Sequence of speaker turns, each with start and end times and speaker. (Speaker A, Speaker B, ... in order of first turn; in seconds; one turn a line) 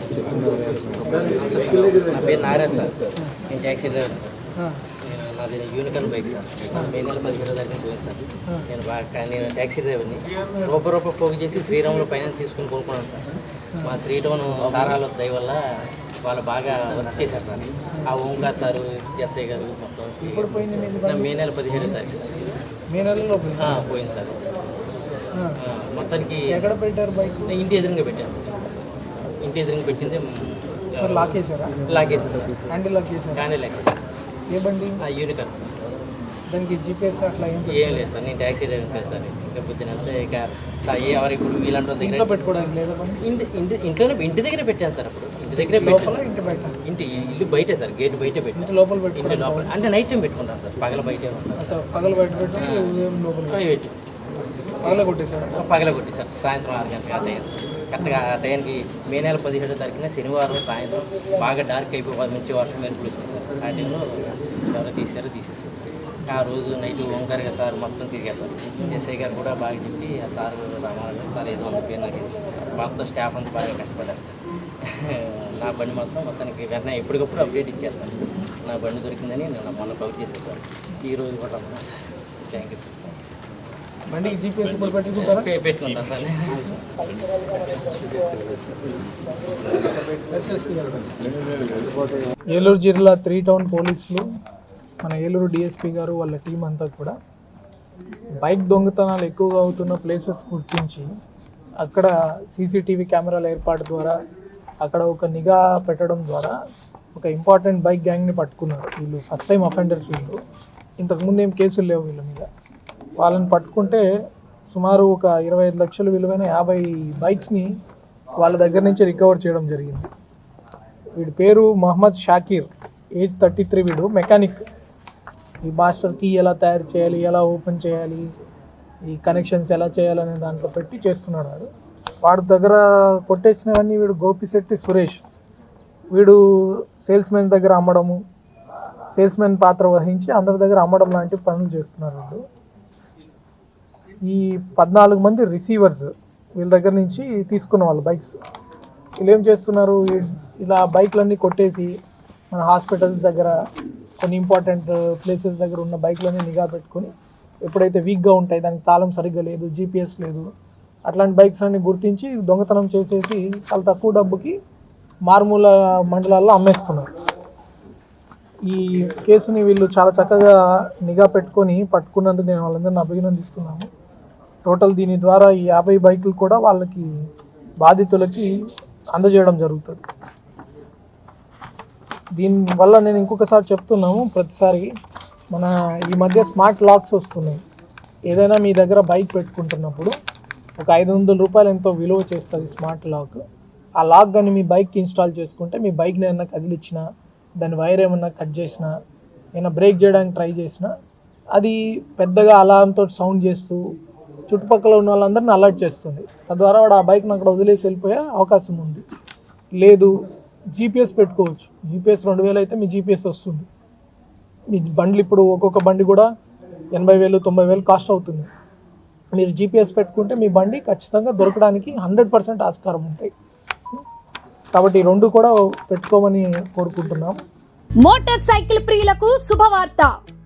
Speaker A: 0.9-4.4
Speaker A: 5.0-22.6
Speaker B: 20.2-21.3
Speaker B: 22.9-23.8
Speaker A: 23.6-24.4
Speaker A: 25.6-26.7
Speaker B: 26.5-27.5
Speaker A: 27.5-28.6
Speaker A: 29.4-32.7
Speaker B: 31.0-31.9
Speaker B: 32.7-33.5
Speaker A: 33.3-34.1
Speaker B: 34.5-35.0
Speaker A: 35.0-35.7
Speaker B: 36.5-38.1
Speaker A: 37.6-42.4
Speaker B: 42.0-43.2
Speaker A: 43.2-46.3
Speaker B: 45.6-46.8
Speaker A: 46.8-51.8
Speaker B: 48.5-49.7
Speaker B: 51.6-53.6
Speaker A: 52.5-54.0
Speaker A: 54.8-83.0
Speaker B: 54.8-55.6
Speaker B: 84.1-85.5
Speaker A: 85.1-88.4
Speaker B: 90.2-91.1
Speaker B: 92.5-94.2
Speaker B: 95.0-97.1
Speaker B: 98.4-101.1
Speaker B: 101.8-104.1
Speaker B: 104.8-106.5
Speaker B: 107.1-110.4
Speaker B: 111.0-112.5
Speaker B: 113.2-114.0
Speaker B: 114.7-117.7
Speaker B: 118.4-120.1
Speaker B: 121.2-124.6
Speaker B: 125.6-128.3
Speaker B: 129.1-131.7
Speaker B: 132.2-135.2
Speaker B: 136.1-138.2
Speaker B: 139.1-142.4
Speaker B: 144.2-148.3
Speaker B: 149.2-151.9
Speaker B: 152.5-153.5
Speaker B: 154.2-157.1
Speaker B: 157.6-160.4
Speaker B: 161.1-164.5
Speaker B: 165.2-167.1
Speaker B: 168.7-173.9
Speaker B: 174.6-177.1
Speaker B: 177.8-178.5
Speaker B: 179.1-180.0
Speaker B: 182.4-184.9
Speaker B: 185.5-187.6
Speaker B: 188.3-190.1
Speaker B: 190.8-193.4
Speaker B: 194.0-197.0
Speaker B: 197.6-198.9
Speaker B: 199.5-200.9
Speaker B: 201.5-203.8
Speaker B: 204.5-209.0
Speaker B: 209.8-210.1
Speaker B: 210.7-213.7
Speaker B: 214.7-216.3
Speaker B: 216.9-218.5
Speaker B: 219.3-223.3
Speaker B: 224.7-227.3
Speaker C: 228.0-230.1